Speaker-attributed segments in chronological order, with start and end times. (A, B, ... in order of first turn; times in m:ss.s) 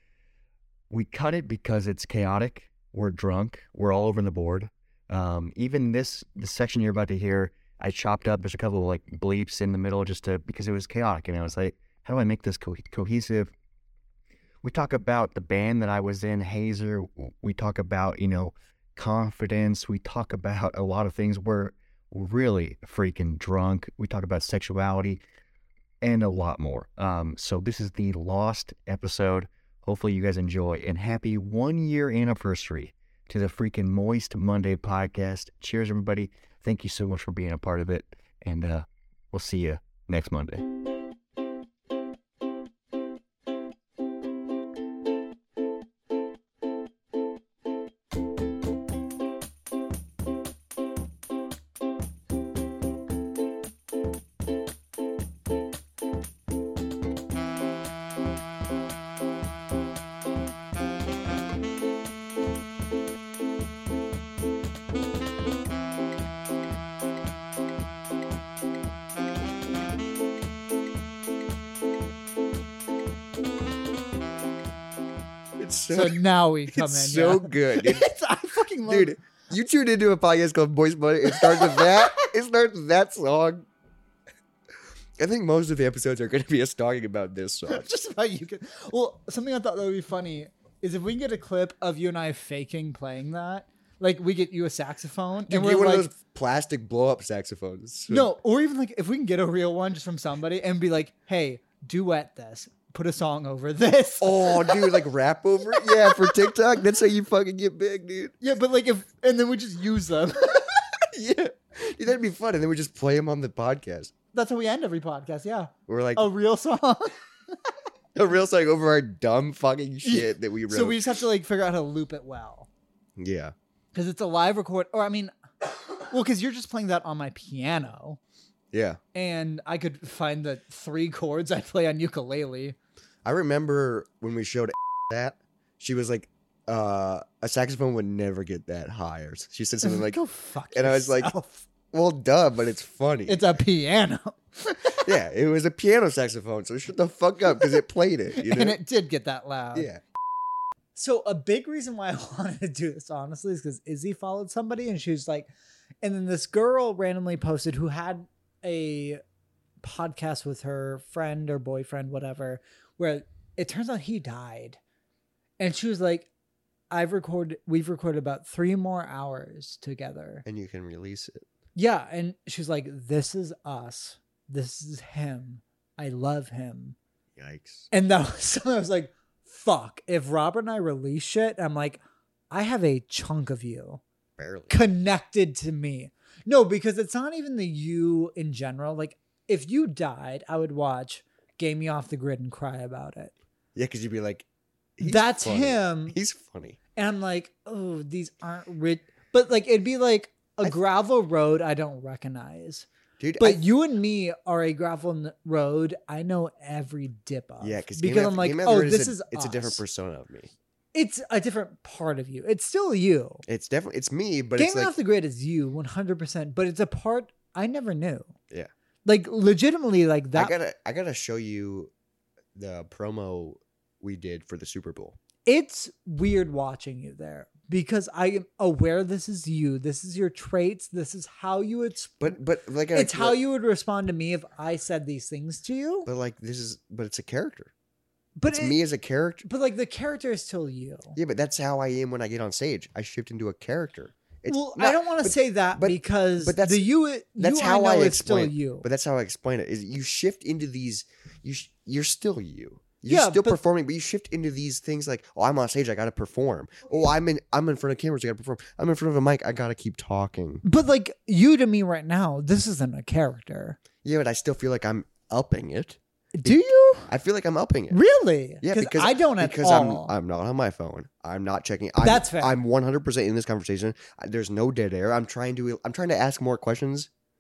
0:00.9-0:13.5 A
0:14.6-0:25.2 A
0:26.0-0:40.6 A
1:15.6-1:18.1 B
1:15.9-1:19.2 C
1:18.9-1:23.6 B
1:21.2-1:22.2 C
1:25.2-1:27.8 B
1:27.7-1:36.1 C
1:35.5-1:38.3 B
1:38.1-1:45.0 C
1:44.2-1:48.4 B
1:45.8-1:46.5 C
1:48.4-1:50.7 C
1:51.1-1:54.1 B
1:54.3-1:57.2 C
1:55.9-1:56.3 B
1:58.1-2:01.1 B
2:00.0-2:02.7 C
2:03.2-2:03.5 B
2:03.9-2:05.3 C
2:06.0-2:08.2 C
2:08.7-2:09.0 B
2:09.1-2:12.8 C
2:13.2-2:20.2 B
2:19.8-2:21.7 C
2:20.7-2:21.3 B
2:21.9-2:23.4 B
2:23.3-2:25.1 C
2:25.0-2:28.8 B
2:28.3-2:29.9 C
2:29.7-2:30.0 B
2:30.9-2:35.5 C
2:36.0-2:39.2 C
2:39.8-2:44.8 C
2:45.6-2:46.3 C
2:46.9-2:50.4 C
2:50.4-2:51.5 B
2:51.8-2:57.0 C
2:57.4-2:57.9 B
2:57.9-3:04.0 C
3:04.4-3:04.8 B
3:04.7-3:13.3 C
3:13.7-3:14.4 B
3:15.0-3:16.8 B
3:15.0-3:16.2 C
3:17.0-3:22.9 C
3:23.2-3:23.6 B
3:23.4-3:29.8 C
3:27.6-3:30.5 B
3:30.9-3:33.4 C
3:33.4-3:34.9 B
3:34.6-3:38.3 C
3:39.0-3:40.5 C
3:40.3-3:41.9 B
3:42.6-3:45.2 B
3:45.4-3:52.4 C
3:52.2-3:53.4 B
3:52.9-3:56.1 C
3:56.0-3:57.7 B
3:58.4-3:58.8 C
3:58.5-3:59.4 B
3:59.4-4:01.2 C
4:01.2-4:06.8 B
4:04.5-4:08.8 C
4:07.4-4:20.6 B
4:13.1-4:13.6 C
4:20.6-4:23.8 C
4:24.0-4:28.0 B
4:26.3-4:27.1 C
4:27.9-4:30.1 C
4:28.6-4:37.1 B
4:32.0-4:32.5 C